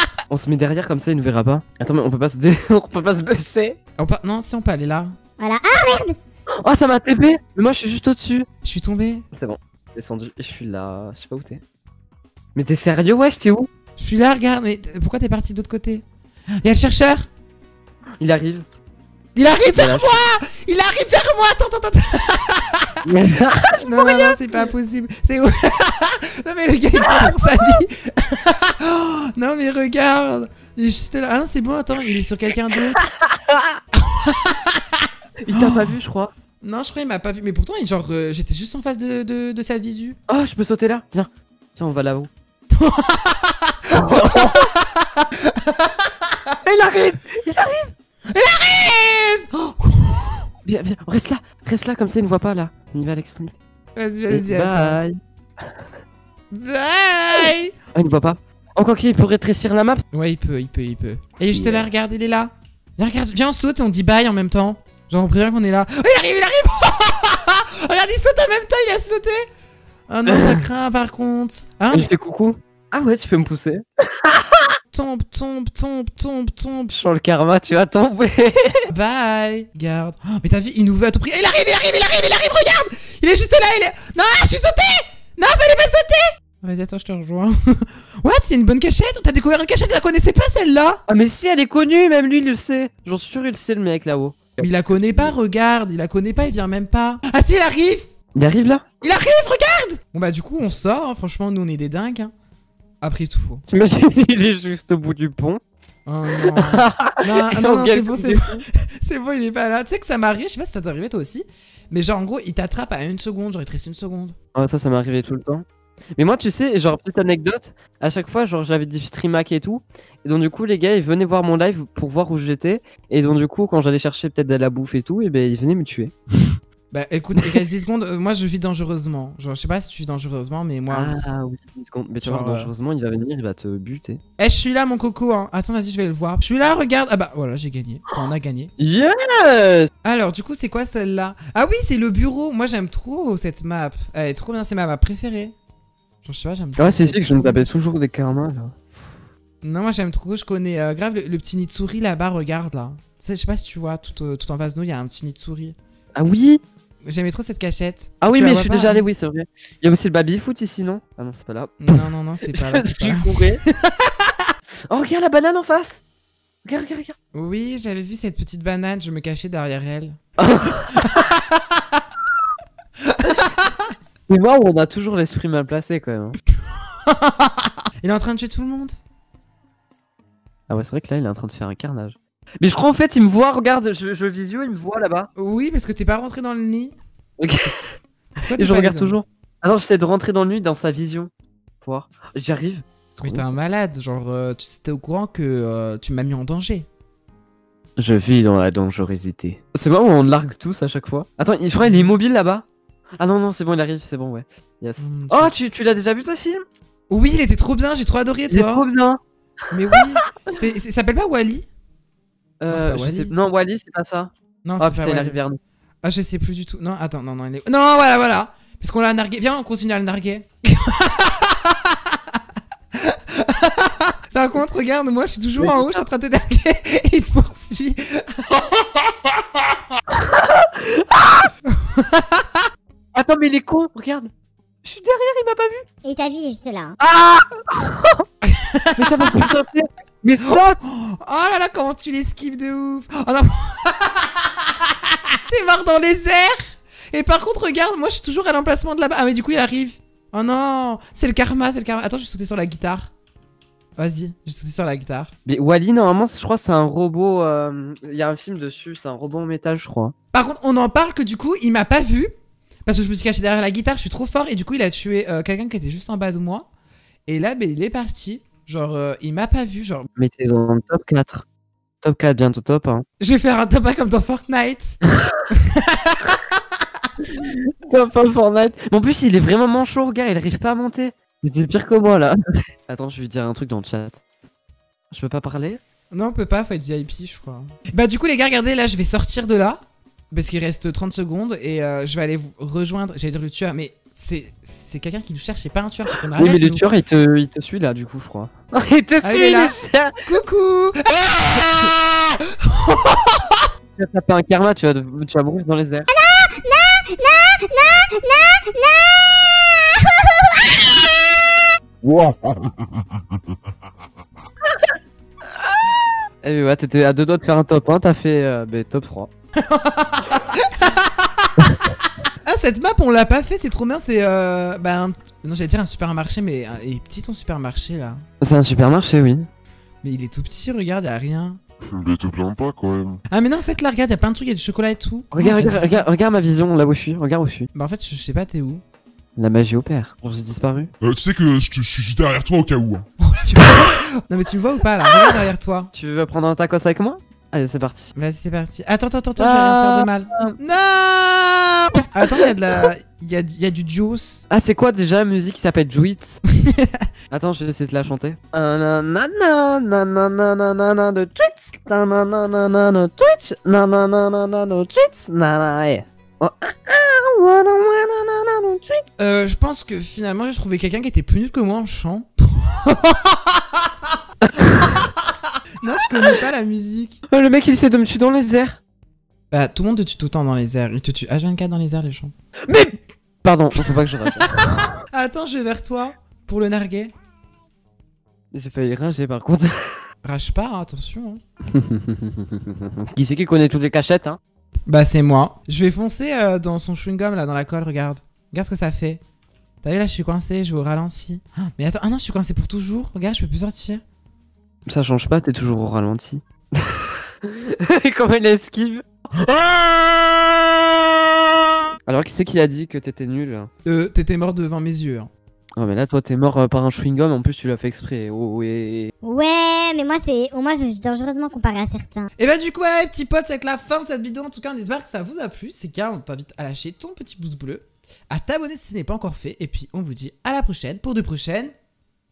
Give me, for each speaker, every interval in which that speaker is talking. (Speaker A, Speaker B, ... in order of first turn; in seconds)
Speaker A: 0.3-3.8, 6.6-8.5, 9.3-11.6, 12.6-13.7, 18.2-18.7, 19.7-20.2, 23.1-24.4, 27.0-27.4, 33.0-33.8, 35.4-36.3, 40.3-42.3, 43.9-44.7, 46.6-47.9, 50.6-53.5, 54.3-55.2, 58.0-60.0, 61.5-61.9, 70.3-70.7, 71.9-74.8, 76.9-78.9, 91.1-95.3, 98.3-98.8, 103.7-105.6, 106.3-108.7, 114.5-115.7, 116.2-126.1, 127.4-127.6, 130.9-134.2, 138.8-139.9, 146.8-149.2, 156.2-156.6, 158.2-163.6, 164.9-166.0, 166.7-167.2, 170.4-171.1, 174.3-176.4, 180.7-185.3, 187.4-187.9, 188.6-191.3, 191.8-193.6, 198.0-202.7, 203.2-206.7, 208.5-209.2, 209.9-210.5, 212.6-215.6, 225.6-226.1, 230.1-231.5, 233.2-234.3, 234.8-235.9, 237.0-238.2, 239.0-240.8, 255.5-260.1, 270.2-271.4, 272.0-273.1, 277.3-282.4, 282.9-284.2, 285.1-285.8, 296.4-300.1, 304.0-306.1, 316.4-319.3, 328.4-329.5, 335.3-337.7, 339.4-340.9, 345.9-348.1, 349.4-350.6, 354.5-356.4, 357.3-369.0, 374.5-375.1, 377.3-378.8, 382.7-384.9, 388.5-390.1, 391.7-394.4, 404.9-409.0, 412.1-413.7, 415.8-419.1
Speaker B: 4.0-5.2, 8.6-9.2, 14.0-16.0, 16.6-17.3, 19.4-23.1, 23.8-33.0, 34.0-35.9, 36.6-40.2, 42.7-45.9, 48.3-50.5, 54.0-55.0, 56.5-57.7, 60.1-69.5, 70.1-72.1, 74.9-76.9, 78.9-91.0, 94.6-98.1, 99.0-102.3, 103.0-103.6, 106.1-114.3, 126.9-131.3, 132.2-132.7, 134.4-138.7, 140.0-145.6, 146.2-147.7, 149.6-155.8, 157.1-159.1, 161.8-164.3, 167.3-170.2, 170.9-172.0, 173.0-173.9, 177.1-179.0, 185.4-187.0, 188.4-189.2, 193.2-196.9, 201.8-202.1, 205.0-205.5, 207.1-208.9, 209.7-211.7, 212.7-213.3, 214.6-215.4, 216.0-222.4, 222.9-228.6, 231.8-232.6, 238.4-239.5, 240.4-253.1, 254.0-255.3, 260.3-262.3, 262.9-266.7, 267.3-270.1, 273.2-276.6, 286.1-296.9, 299.2-299.8, 300.3-303.6, 319.6-328.2, 330.0-331.6, 333.3-336.1, 337.7-338.8, 343.2-345.9, 348.2-354.4, 356.6-357.1, 369.2-373.7, 375.8-377.2, 379.5-382.3, 385.0-387.1, 390.2-391.4, 394.9-399.2, 399.8-404.0, 413.9-415.3, 422.4-431.7
Speaker C: 5.4-6.2, 236.0-236.9, 306.1-311.3, 419.2-422.3
Speaker D: 312.0-312.8, 331.8-333.2, 341.0-343.1, 410.0-410.4